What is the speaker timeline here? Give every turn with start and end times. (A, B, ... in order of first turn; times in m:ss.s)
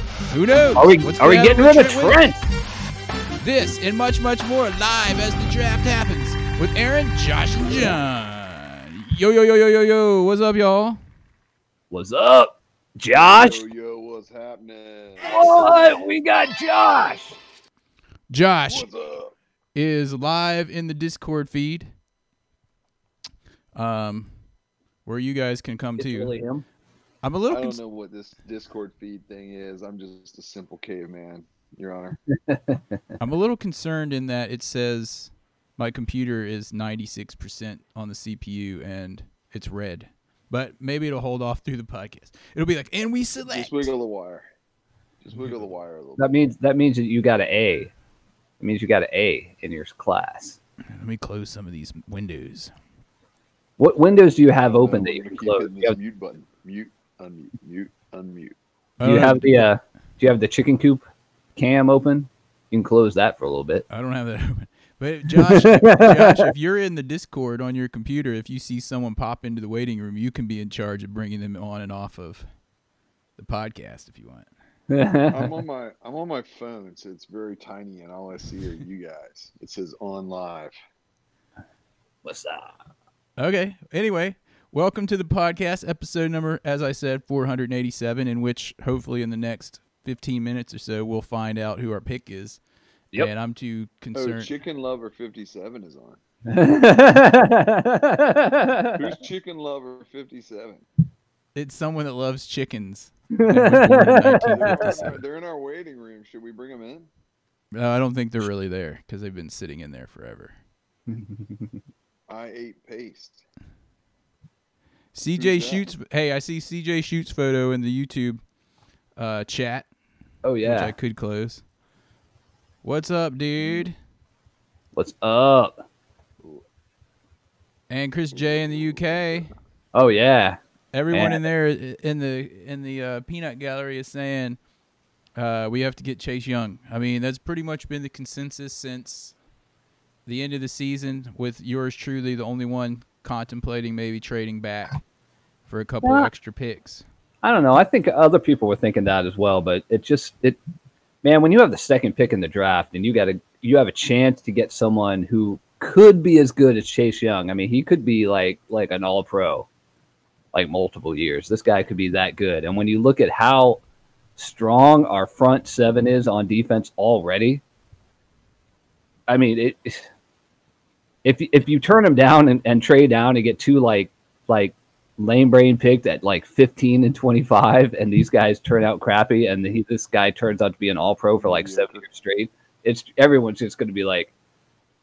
0:00.3-0:02.2 A
0:00.8-0:02.4 B
0:03.4-0:11.0 A
0:11.9-0:13.6 B
0:13.1-0:16.0 C
0:15.2-0:17.4 B
0:18.3-0:18.9 A
0:18.7-0:19.4 C
0:19.8-0:21.9 A
0:23.8-0:24.3 A
0:25.0-0:26.3 A
0:26.0-0:26.6 B
0:27.2-0:27.8 A
0:27.5-0:32.2 C
0:32.5-0:33.0 B
0:33.2-0:43.9 A
0:43.5-0:44.4 C
0:45.2-0:46.3 C
0:45.4-0:45.7 A
0:46.2-0:47.9 B
0:48.6-0:50.6 B
0:50.9-0:52.7 A
0:53.8-0:56.0 B
0:54.6-0:58.6 C
0:59.0-0:59.7 A
0:59.0-1:01.0 B
1:01.6-1:03.8 B
1:03.9-1:12.5 A
1:05.4-1:06.5 B
1:13.4-1:14.5 A
1:14.9-1:15.6 B
1:15.3-1:20.8 C
1:22.2-1:22.8 B
1:23.4-1:32.6 A
1:33.2-1:34.5 A
1:34.2-1:36.2 C
1:36.5-1:39.0 B
1:39.0-1:40.8 C
1:41.6-1:45.2 A
1:43.3-1:45.1 B
1:44.5-1:47.1 C
1:47.7-1:50.6 A
1:51.1-1:51.8 B
1:52.3-1:53.4 C
1:55.1-1:58.4 A
1:55.4-1:55.9 C
1:59.2-1:59.9 A
2:00.4-2:00.9 B
2:00.6-2:01.6 A
2:02.8-2:04.0 A
2:05.0-2:05.7 B
2:07.9-2:09.5 A
2:08.3-2:09.5 C
2:09.9-2:10.6 B
2:10.9-2:14.6 A
2:11.1-2:11.4 B
2:15.4-2:19.4 A
2:20.3-2:25.0 A
2:25.7-2:27.0 A
2:26.0-2:26.3 B
2:27.4-2:30.6 B
2:31.2-2:39.7 B
2:40.5-2:43.8 B
2:44.4-2:47.6 B
2:49.3-2:50.1 B
2:51.2-3:04.3 B
3:01.4-3:02.0 C